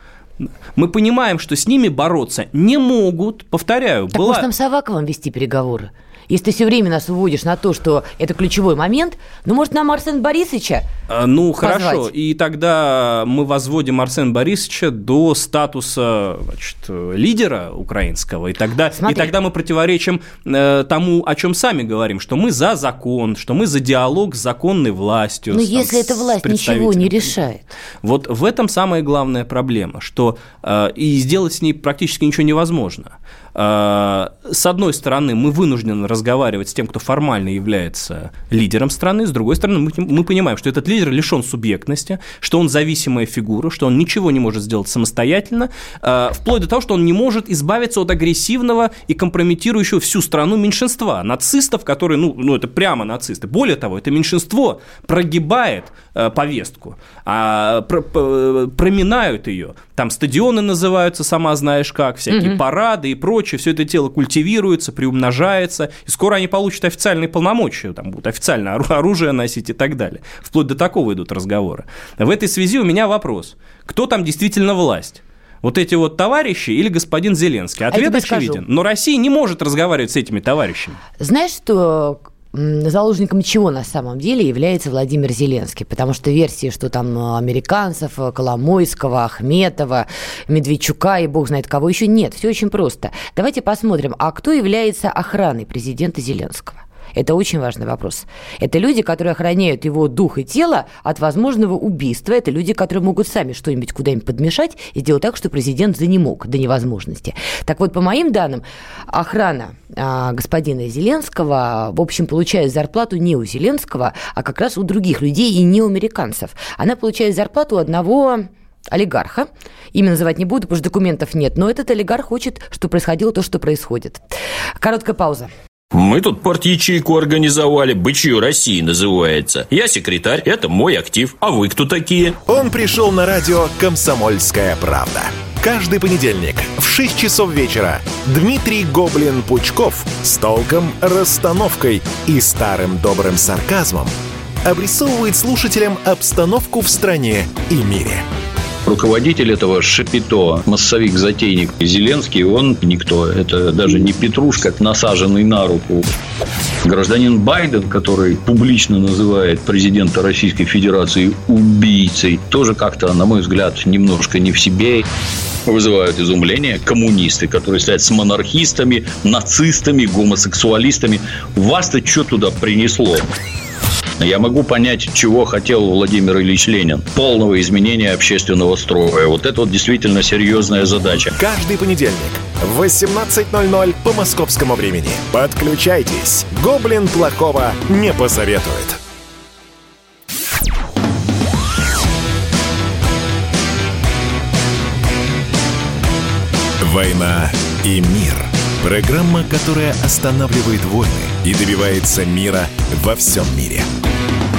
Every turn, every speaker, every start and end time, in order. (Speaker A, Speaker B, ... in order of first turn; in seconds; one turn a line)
Speaker A: 0.4-4.5
Speaker B: 4.1-10.8
Speaker A: 11.1-27.3
Speaker B: 11.6-12.1
Speaker B: 18.9-19.3
Speaker B: 25.5-27.7
Speaker A: 28.0-81.0
Speaker B: 62.3-62.6
Speaker B: 77.9-78.6
Speaker B: 81.2-124.2
Speaker B: 124.8-125.5
Speaker C: 125.9-132.4
Speaker D: 132.4-144.1
Speaker D: 144.6-148.2
Speaker E: 148.8-156.1
Speaker E: 156.8-165.0
Speaker E: 165.7-173.2
Speaker E: 174.2-181.3
Speaker D: 181.3-189.0
Speaker D: 196.8-203.9